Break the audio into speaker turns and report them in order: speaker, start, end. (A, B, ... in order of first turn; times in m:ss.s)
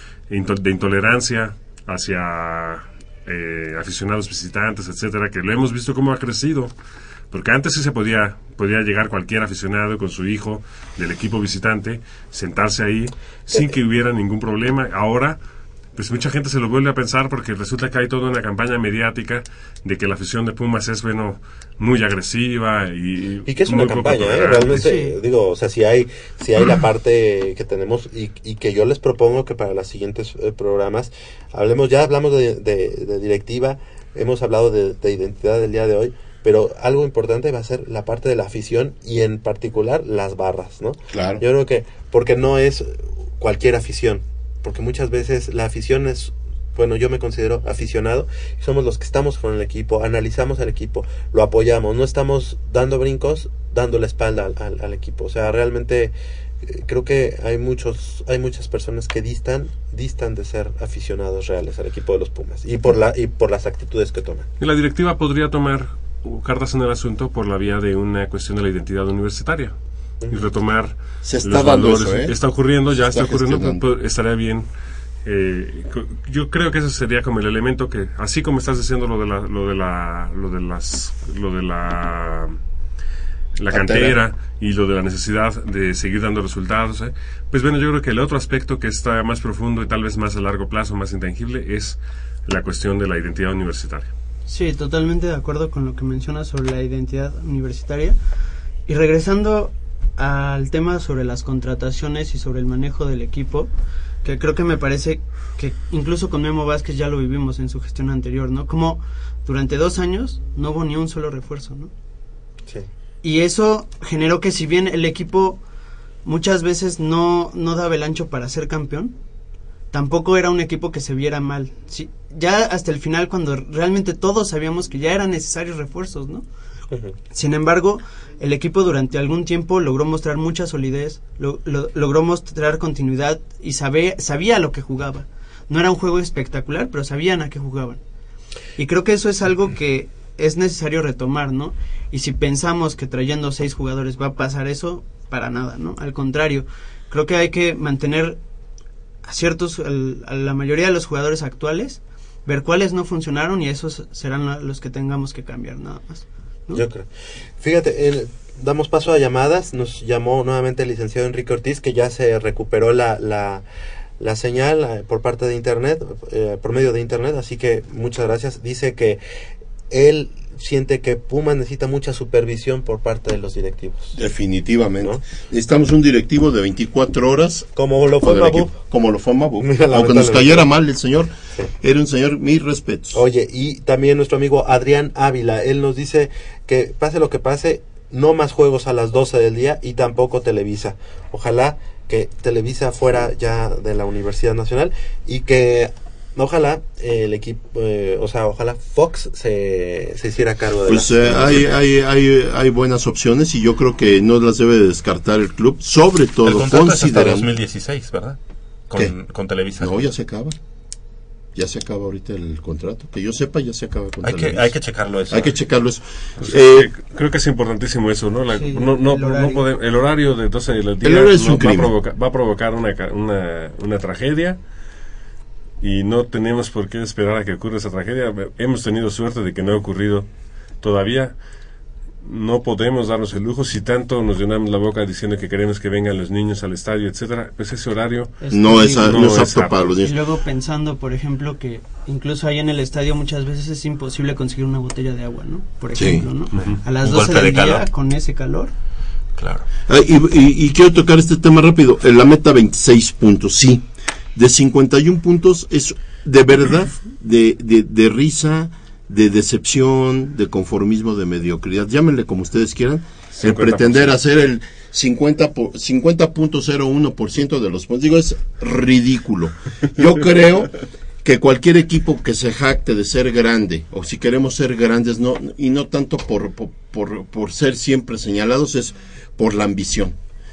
0:00.3-0:06.7 A
0:07.3-0:15.4 A
0:15.9-0:24.9 A
0:23.4-1:04.5 B
0:24.7-0:25.2 C
0:41.1-0:41.4 D
1:04.6-1:14.7 A
1:11.2-1:13.8 D
1:15.2-1:22.6 A
1:23.6-1:34.1 A
1:23.7-1:24.2 D
1:34.4-1:38.2 C
1:38.9-1:43.7 C
1:44.2-1:51.9 C
1:53.2-1:55.6 C
1:56.2-1:59.2 C
1:59.9-2:06.4 C
2:07.3-2:18.0 C
2:18.8-2:28.4 C
2:29.3-2:36.8 C
2:36.7-2:37.1 B
2:37.6-2:43.6 B
2:44.2-2:49.2 B
2:49.9-2:54.2 B
2:54.1-3:03.2 D
2:57.8-2:58.7 B
2:59.6-3:00.7 B
3:03.1-3:21.6 B
3:20.8-3:27.5 D
3:26.4-3:28.4 B
3:28.9-3:30.0 B
3:29.8-3:30.6 D
3:31.6-3:34.8 D
3:34.2-3:35.6 B
3:35.3-3:36.9 D
3:36.4-3:44.6 A
3:38.5-3:39.6 C
3:41.0-3:41.9 D
3:45.8-3:51.4 A
3:52.2-4:00.0 A
3:58.4-3:59.5 C
3:58.5-4:00.2 D
4:00.0-4:08.7 C
4:05.9-4:06.3 D
4:06.5-4:06.8 A
4:06.6-4:07.8 B
4:09.4-4:09.6 B
4:09.9-4:40.2 D
4:23.3-4:24.1 A